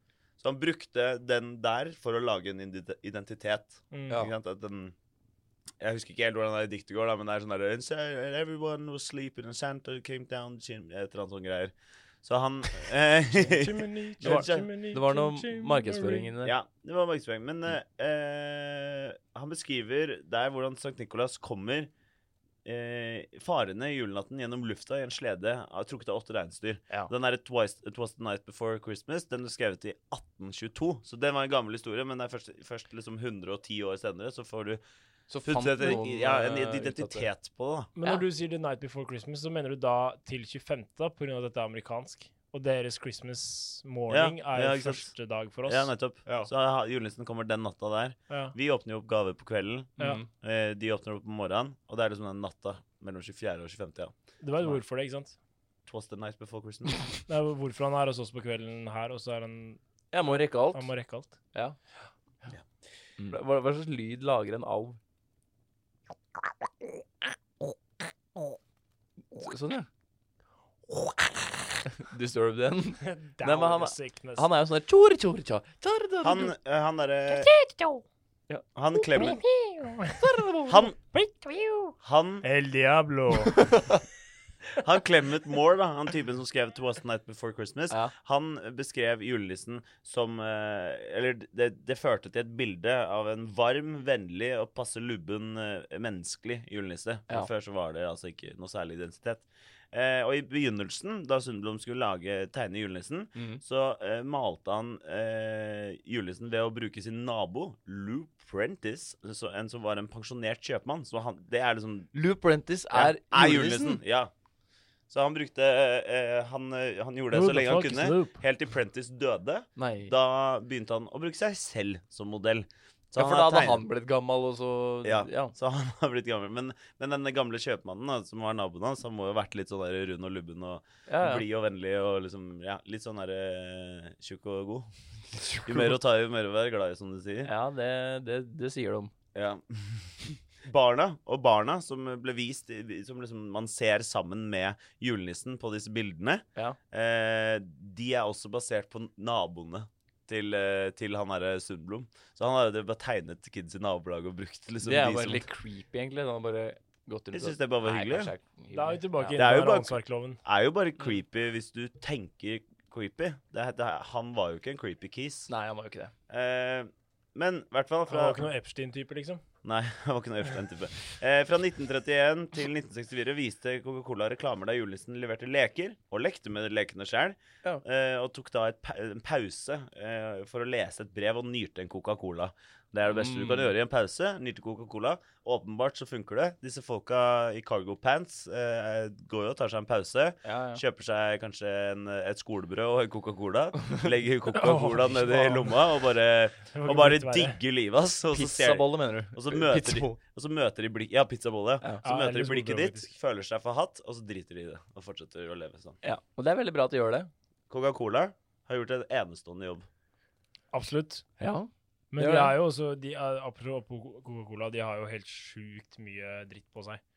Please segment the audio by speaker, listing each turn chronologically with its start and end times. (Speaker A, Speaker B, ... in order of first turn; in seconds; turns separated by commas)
Speaker A: 0.4-5.0, Speaker B: 3.9-4.2, Speaker A: 5.8-11.7, Speaker A: 12.2-14.7, Speaker B: 13.6-16.3, Speaker C: 14.2-16.6, Speaker A: 16.4-21.9, Speaker A: 22.6-34.8, Speaker C: 35.3-37.3, Speaker A: 35.4-37.9, Speaker B: 38.0-45.9, Speaker A: 44.1-54.1, Speaker B: 48.3-48.5, Speaker C: 50.0-50.3, Speaker B: 54.4-55.4, Speaker A: 55.9-57.1, Speaker B: 57.3-59.8, Speaker C: 60.1-60.9, Speaker B: 60.6-61.4, Speaker C: 63.2-65.0, Speaker C: 69.3-69.9, Speaker C: 71.9-76.5, Speaker B: 73.0-74.5, Speaker A: 76.2-77.5, Speaker B: 77.3-78.0, Speaker A: 78.8-79.4, Speaker B: 79.0-80.2, Speaker C: 80.2-80.9, Speaker A: 80.7-81.0, Speaker B: 81.1-83.7, Speaker A: 82.0-82.5, Speaker C: 83.4-84.0, Speaker A: 84.8-112.1, Speaker C: 103.4-103.6, Speaker C: 112.1-114.0, Speaker A: 112.9-114.3, Speaker A: 115.1-123.9, Speaker B: 117.3-118.4, Speaker C: 119.8-120.1, Speaker C: 123.2-125.5, Speaker A: 125.0-134.9, Speaker C: 131.1-131.5, Speaker C: 135.4-135.8, Speaker A: 135.6-137.5, Speaker C: 137.5-139.1, Speaker A: 139.3-155.5, Speaker C: 154.8-159.4, Speaker A: 157.3-158.3, Speaker B: 158.7-160.4, Speaker A: 159.4-165.5, Speaker C: 165.5-166.1, Speaker A: 166.3-168.5, Speaker B: 168.1-169.4, Speaker A: 169.6-206.0, Speaker C: 183.1-183.7, Speaker C: 190.4-190.8, Speaker B: 194.5-195.9, Speaker B: 196.7-197.6, Speaker C: 198.3-200.2, Speaker B: 202.0-203.1, Speaker C: 206.0-207.3, Speaker A: 207.7-209.9, Speaker B: 210.7-211.3, Speaker C: 211.4-212.6, Speaker B: 212.1-217.0